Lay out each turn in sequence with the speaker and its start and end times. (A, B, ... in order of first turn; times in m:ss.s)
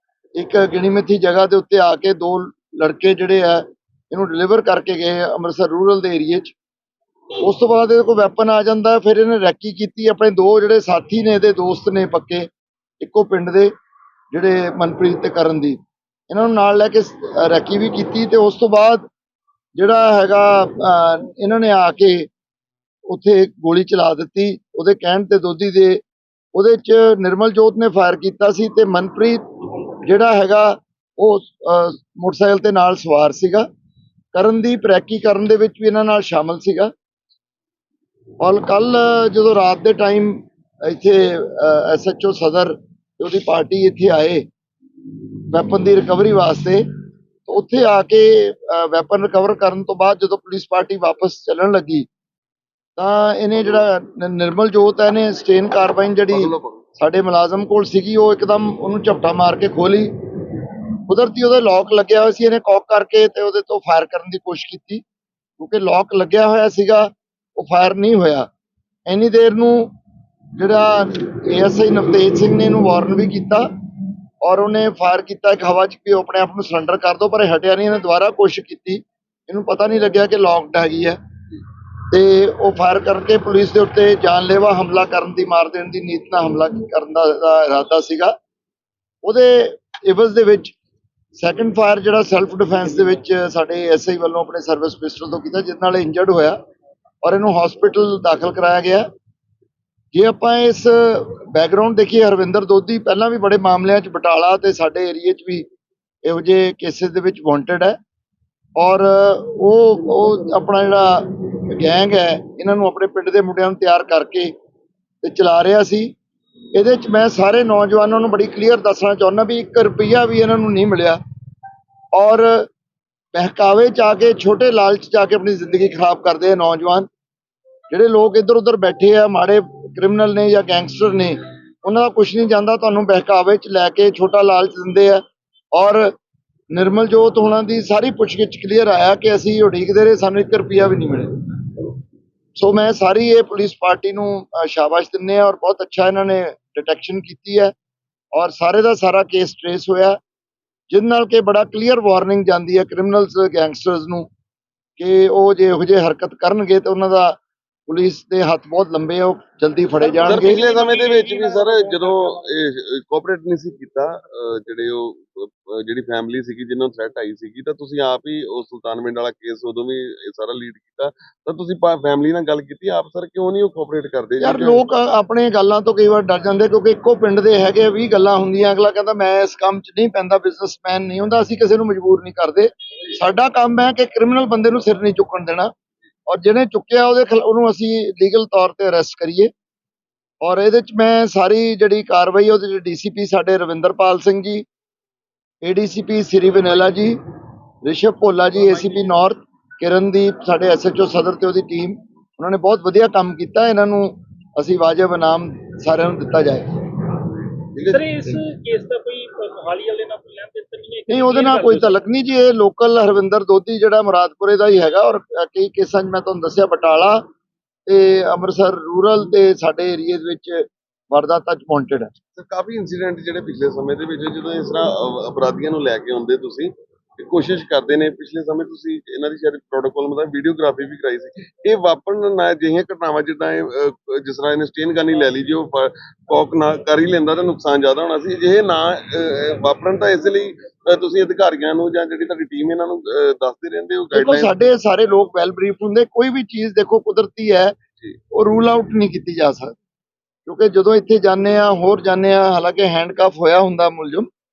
0:00.3-0:06.5 A
0:07.4-0:12.5 A
0:13.0-0:13.7 A
0:14.3-0:15.8 A
0:16.3-0:19.1 A
0:19.8-0:22.3 A
0:23.1-0:26.0 A
0:26.5-0:29.4 A
0:30.0-0:33.6 A
0:34.3-0:36.9 A
0:38.4-0:44.4 A
0:45.5-0:46.8 A
0:47.5-0:52.1 A
0:53.0-1:05.0 A
0:56.3-0:56.8 B
1:05.6-1:08.5 A
1:09.1-1:09.9 A
1:10.6-1:13.7 A
1:14.4-1:21.2 A
1:22.1-1:28.3 A
1:29.2-1:30.7 A
1:31.4-1:36.6 A
1:37.2-1:39.1 A
1:40.1-1:45.6 A
1:46.2-1:48.0 A
1:48.8-1:54.5 A
1:55.2-1:56.1 A
1:56.7-2:01.2 A
2:02.1-2:02.6 A
2:03.3-2:07.1 A
2:07.9-2:15.2 A
2:15.7-2:16.1 A
2:16.7-2:21.8 A
2:22.6-2:27.7 A
2:28.3-2:30.2 A
2:30.9-2:34.3 A
2:35.0-2:40.6 A
2:40.0-2:42.4 C
2:40.2-2:54.8 B
2:54.4-3:05.7 A
3:06.3-3:09.5 A
3:10.4-3:14.6 A
3:15.6-3:17.2 A
3:17.8-3:26.8 A
3:18.7-3:19.0 C
3:27.8-3:32.0 C
3:31.1-3:37.2 A
3:37.8-3:42.1 A
3:42.3-4:04.5 B
4:04.1-4:07.8 A
4:08.3-4:09.7 A
4:10.4-4:14.3 A